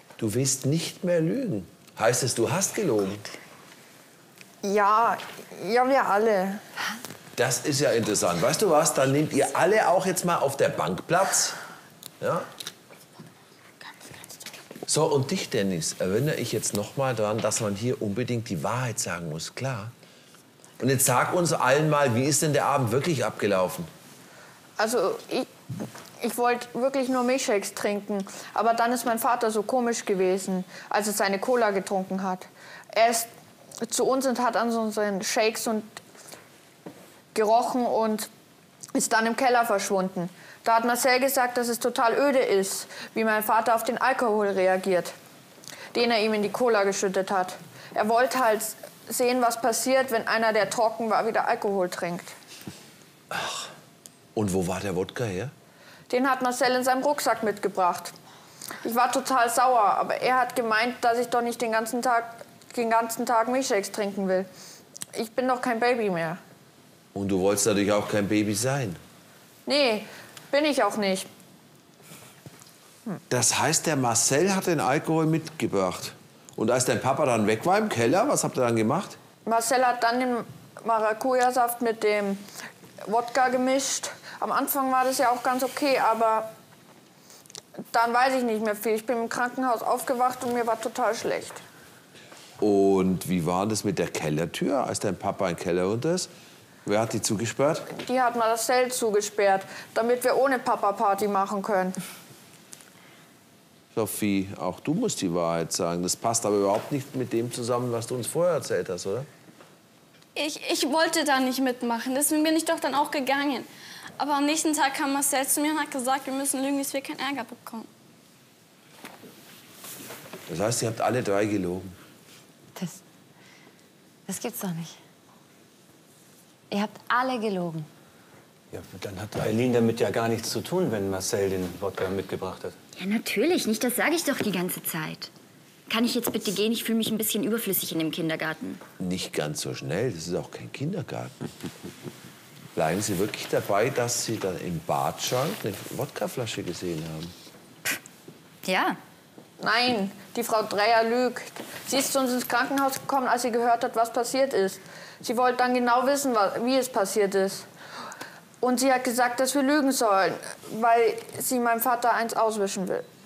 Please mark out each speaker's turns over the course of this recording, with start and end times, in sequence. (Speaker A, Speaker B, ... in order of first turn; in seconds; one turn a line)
Speaker A: 0.2-3.2
Speaker B: 4.6-6.6
Speaker A: 7.4-11.6
Speaker A: 12.2-12.5
Speaker A: 14.9-19.9
Speaker A: 20.8-23.9
Speaker B: 24.8-25.5
Speaker B: 26.2-33.3
Speaker B: 33.9-36.0
Speaker B: 37.3-38.3
Speaker B: 38.9-45.1
Speaker B: 45.9-52.3
Speaker A: 53.3-53.6
Speaker A: 54.3-55.5
Speaker B: 56.1-58.1
Speaker B: 58.8-64.5
Speaker B: 65.1-66.4
Speaker A: 67.1-69.0
Speaker B: 69.7-71.3
Speaker A: 73.3-79.2
Speaker B: 79.5-82.4
Speaker B: 83.0-86.5
Speaker B: 87.9-91.6
Speaker A: 92.6-96.3
Speaker A: 96.8-97.9
Speaker B: 97.9-102.0
Speaker A: 103.9-109.3
Speaker C: 110.3-113.7
Speaker C: 114.2-117.9
Speaker A: 120.5-122.0
Speaker D: 124.3-125.0
Speaker D: 126.7-127.9
Speaker E: 128.7-132.8
Speaker F: 133.0-135.3
Speaker F: 135.9-138.8
Speaker A: 139.0-141.3
Speaker A: 142.8-147.3
Speaker F: 148.6-149.0
Speaker B: 149.6-157.7
Speaker B: 158.6-163.0